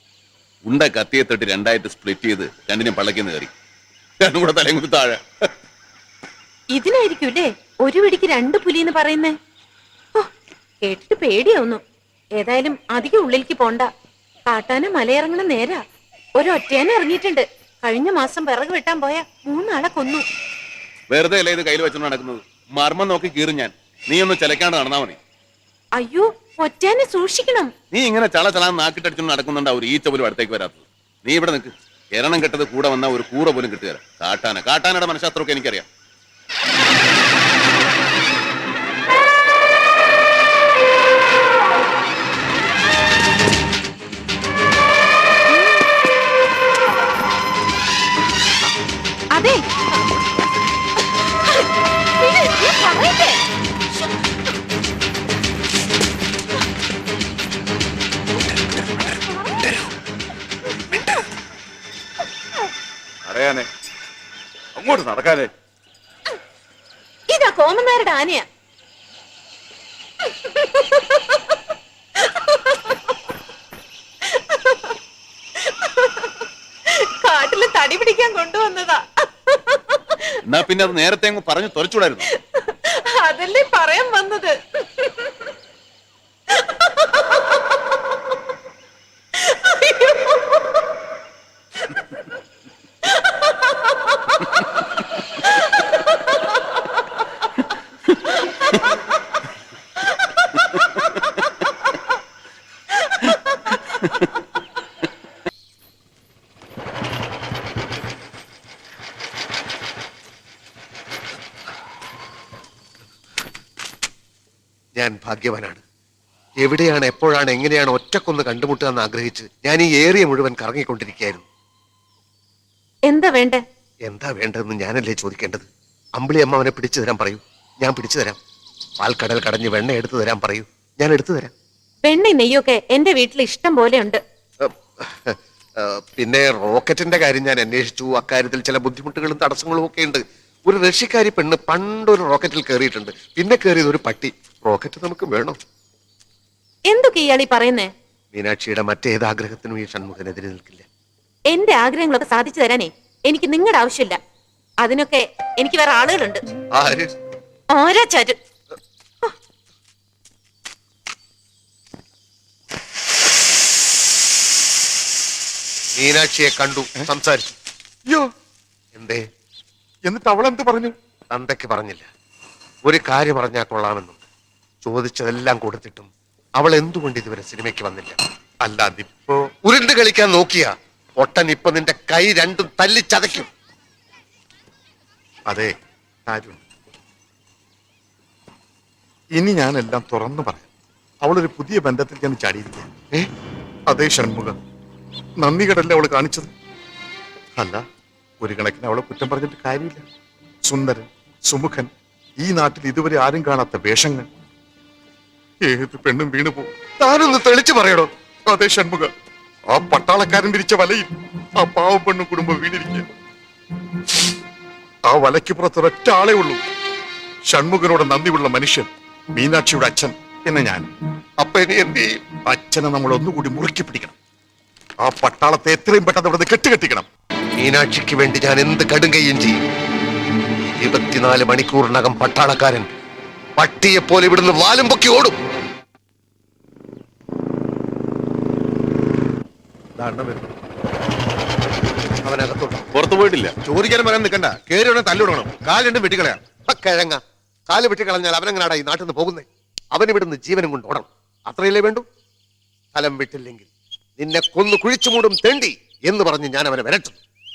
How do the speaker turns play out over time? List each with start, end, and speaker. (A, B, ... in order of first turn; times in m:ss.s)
0:00.7-0:03.5 A
0:04.2-0:05.2 A
0:06.7-0:09.3 B
0:10.8-0:11.8 B
0:12.4-0:13.9 B
0:14.5-0:15.8 B
0:16.4-0:20.2 B
0:21.1-0:25.2 A
0:26.0-0:27.7 B
0:27.9-0:35.9 A
0:45.5-0:45.8 B
0:49.3-0:50.0 B
0:52.2-0:53.4 B
1:03.3-1:03.6 A
1:04.8-1:05.5 A
1:07.3-1:08.4 B
1:10.3-1:11.5 B
1:12.2-1:13.0 B
1:14.3-1:14.9 B
1:15.7-1:16.3 B
1:17.0-1:20.4 B
1:20.5-1:22.3 A
1:22.6-1:25.3 B
1:26.6-1:27.5 B
1:29.4-1:30.6 B
1:33.2-1:33.8 B
1:55.0-1:55.8 C
1:56.6-2:01.4 C
2:03.1-2:03.6 B
2:04.1-2:05.7 C
2:06.2-2:08.4 C
2:09.0-2:11.5 C
2:12.0-2:14.2 B
2:14.6-2:25.6 C
2:26.9-2:27.9 B
2:28.3-2:30.9 C
2:31.5-2:34.2 B
2:34.8-2:36.4 B
2:36.8-2:37.1 C
2:37.7-2:38.4 B
2:46.0-2:47.6 C
2:49.0-2:49.2 C
2:50.1-2:50.9 D
2:51.3-2:52.1 C
2:52.8-2:54.2 C
2:54.8-2:58.2 C
2:58.6-2:59.4 D
2:59.7-3:03.5 C
3:06.3-3:06.6 D
3:09.4-3:10.7 D
3:11.2-3:12.9 D
3:13.9-3:14.6 D
3:15.4-3:16.5 D
3:17.6-3:17.8 D
3:18.4-3:20.0 D
3:20.7-3:24.3 D
3:25.6-3:26.7 D
3:27.0-3:28.1 C
3:28.5-3:29.1 D
3:29.7-3:31.1 D
3:31.6-3:33.1 D
3:35.1-3:36.6 D
3:37.5-3:40.9 D
3:41.4-3:42.2 C
3:42.5-3:44.2 D
3:45.1-3:47.1 D
3:47.6-3:49.6 C
3:50.7-3:52.9 C
3:53.6-3:55.4 C
4:00.0-4:00.5 C
4:02.2-4:02.9 C
4:02.9-4:03.5 A
4:03.6-4:12.0 C
4:12.9-4:17.2 C